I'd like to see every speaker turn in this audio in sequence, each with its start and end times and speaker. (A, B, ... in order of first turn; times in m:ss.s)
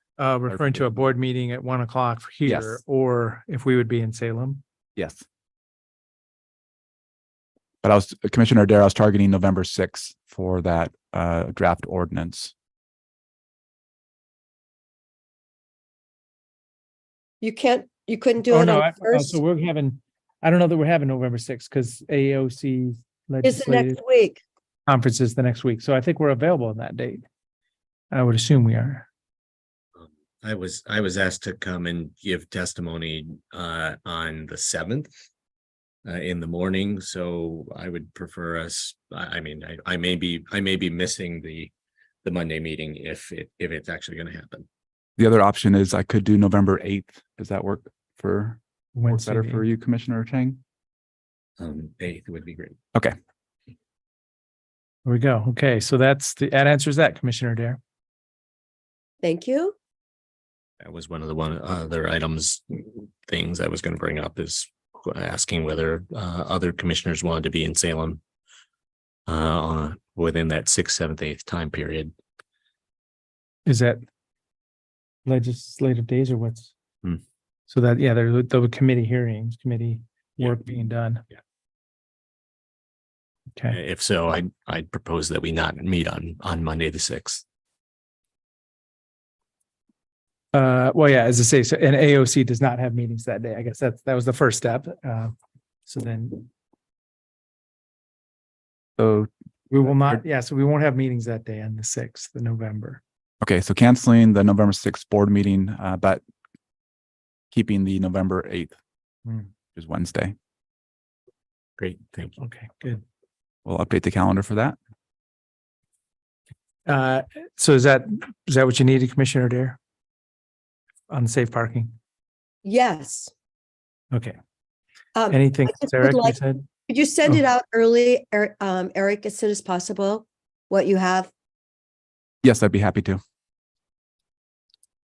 0:00.2-0:04.6 A
0:00.5-0:00.8 B
0:02.4-0:02.8 B
0:05.0-0:05.2 B
0:07.8-0:12.5 B
0:17.4-0:19.4 C
0:18.5-0:24.0 A
0:23.4-0:24.4 C
0:24.9-0:27.2 A
0:28.1-0:29.1 A
0:30.0-0:35.1 D
0:36.0-0:41.7 D
0:42.2-0:44.6 D
0:45.2-0:50.6 B
0:48.9-0:49.6 A
0:51.6-0:52.8 D
0:55.0-0:57.8 A
0:59.2-0:59.7 C
1:00.8-1:08.2 D
1:09.3-1:12.1 D
1:13.6-1:14.0 A
1:15.2-1:16.7 A
1:17.7-1:21.2 A
1:23.7-1:27.4 D
1:30.5-1:35.3 A
1:35.8-1:36.5 A
1:39.0-1:39.3 B
1:39.7-1:43.0 A
1:39.8-1:40.2 B
1:43.4-1:46.2 B
1:47.5-1:48.8 B
1:49.7-1:50.3 B
1:51.8-1:52.4 D
1:52.4-1:53.0 A
1:53.6-1:54.8 B
1:56.8-1:59.8 A
2:01.1-2:01.9 A
2:02.6-2:03.3 C
2:05.1-2:06.4 C
2:05.3-2:06.6 A
2:06.9-2:11.3 C
2:12.4-2:13.2 B